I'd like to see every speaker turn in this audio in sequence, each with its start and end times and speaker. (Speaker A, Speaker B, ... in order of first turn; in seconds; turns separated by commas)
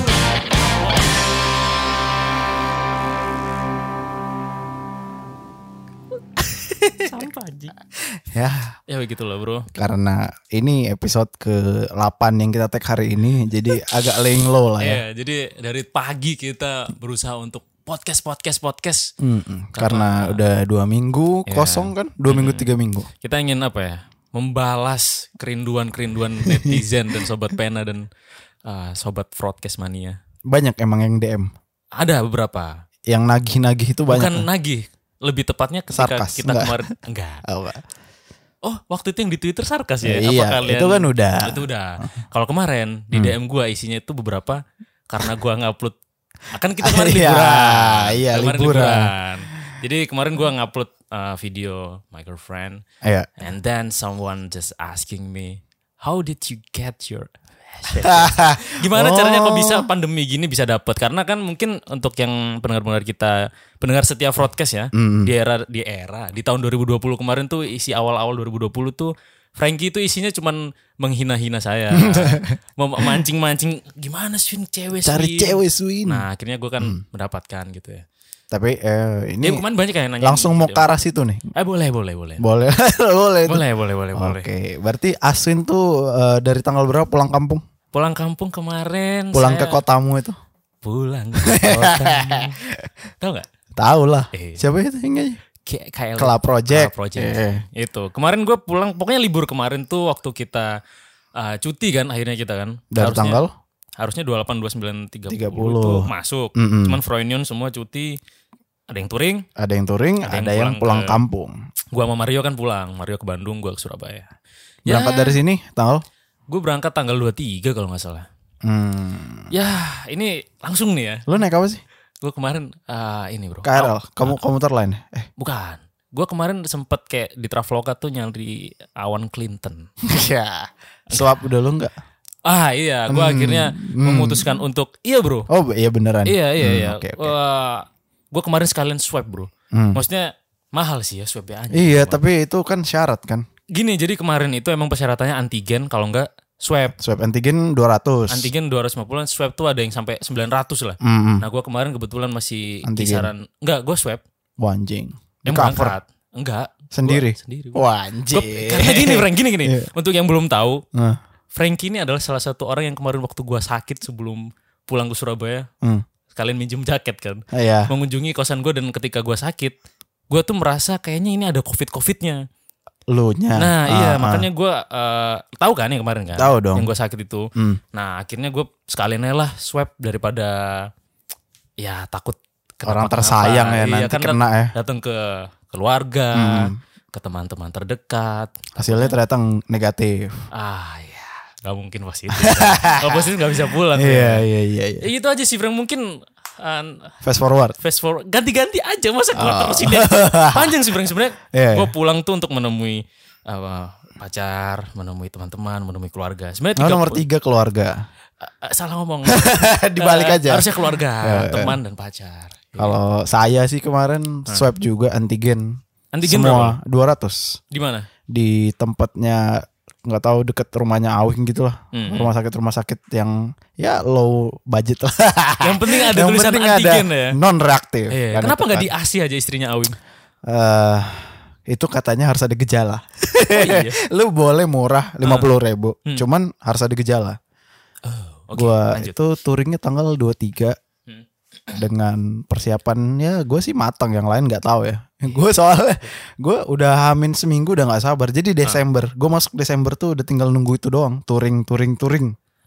Speaker A: 6.8-7.7, Speaker B: 8.1-8.7, Speaker A: 8.9-9.7, Speaker B: 9.7-15.0, Speaker A: 14.8-19.1, Speaker B: 19.2-23.1, Speaker A: 19.7-20.4, Speaker A: 21.5-22.7, Speaker A: 23.2-28.1, Speaker B: 26.4-26.8, Speaker A: 28.6-30.2, Speaker B: 30.5-31.5, Speaker A: 32.0-32.7, Speaker B: 33.1-34.5, Speaker A: 34.1-37.4, Speaker B: 35.9-36.8, Speaker B: 37.5-37.8, Speaker A: 38.6-45.9, Speaker B: 40.0-42.1, Speaker A: 46.5-52.8, Speaker B: 46.8-49.8, Speaker B: 53.0-53.3, Speaker A: 53.4-78.0, Speaker B: 58.0-59.9, Speaker B: 64.9-65.3, Speaker B: 71.9-73.2, Speaker B: 75.0-76.2, Speaker B: 78.5-79.6, Speaker A: 79.4-80.9, Speaker B: 80.2-81.5, Speaker A: 81.5-82.4, Speaker B: 82.4-87.6, Speaker A: 83.5-84.5, Speaker A: 87.9-89.8, Speaker B: 89.3-90.3, Speaker A: 90.8-92.6, Speaker B: 91.4-92.9, Speaker A: 93.2-93.5, Speaker B: 93.8-95.4, Speaker A: 94.3-94.6, Speaker A: 95.6-100.7, Speaker B: 96.2-97.6, Speaker A: 101.3-103.4, Speaker B: 102.9-103.5, Speaker A: 104.0-108.2, Speaker B: 105.3-107.0, Speaker A: 108.9-109.5, Speaker B: 109.6-111.5, Speaker A: 110.2-111.2, Speaker A: 111.9-114.3, Speaker A: 114.9-115.4, Speaker B: 114.9-116.0, Speaker A: 116.5-118.2, Speaker B: 118.6-119.5, Speaker A: 119.5-121.2, Speaker B: 121.3-121.8, Speaker A: 122.2-124.4, Speaker B: 123.6-125.3, Speaker A: 125.4-129.9, Speaker B: 130.0-131.9, Speaker A: 132.4-135.5, Speaker B: 133.1-134.6, Speaker B: 135.5-137.3, Speaker A: 136.2-142.2, Speaker B: 139.7-140.0, Speaker B: 141.7-143.4, Speaker A: 143.7-146.9, Speaker B: 147.0-148.5, Speaker A: 148.3-154.2, Speaker B: 151.0-151.4, Speaker B: 152.8-153.3, Speaker B: 154.6-155.9, Speaker A: 155.5-160.8, Speaker B: 156.9-159.9, Speaker B: 160.9-161.2, Speaker A: 161.5-165.7, Speaker A: 166.3-169.8, Speaker B: 167.5-167.9, Speaker A: 170.3-172.4, Speaker B: 173.1-174.4, Speaker A: 173.6-180.9, Speaker B: 176.4-176.9, Speaker A: 181.8-189.2, Speaker B: 182.9-184.7, Speaker B: 186.3-186.8, Speaker B: 188.8-190.3, Speaker A: 190.5-194.4, Speaker B: 192.3-193.3, Speaker B: 193.9-195.1, Speaker A: 195.0-196.1, Speaker A: 196.6-197.1, Speaker B: 197.2-197.8, Speaker A: 197.8-207.2, Speaker B: 199.3-200.8, Speaker B: 201.5-201.9, Speaker B: 206.8-208.0, Speaker A: 208.4-213.0, Speaker B: 209.3-210.7, Speaker B: 211.2-211.8, Speaker B: 212.8-217.6, Speaker A: 216.1-216.8, Speaker A: 217.7-218.1, Speaker B: 218.3-228.9, Speaker A: 221.9-222.3, Speaker A: 225.6-227.4, Speaker A: 228.1-229.9, Speaker B: 230.4-237.4, Speaker A: 233.5-234.0, Speaker A: 238.0-239.2, Speaker B: 238.6-240.8, Speaker B: 241.7-252.3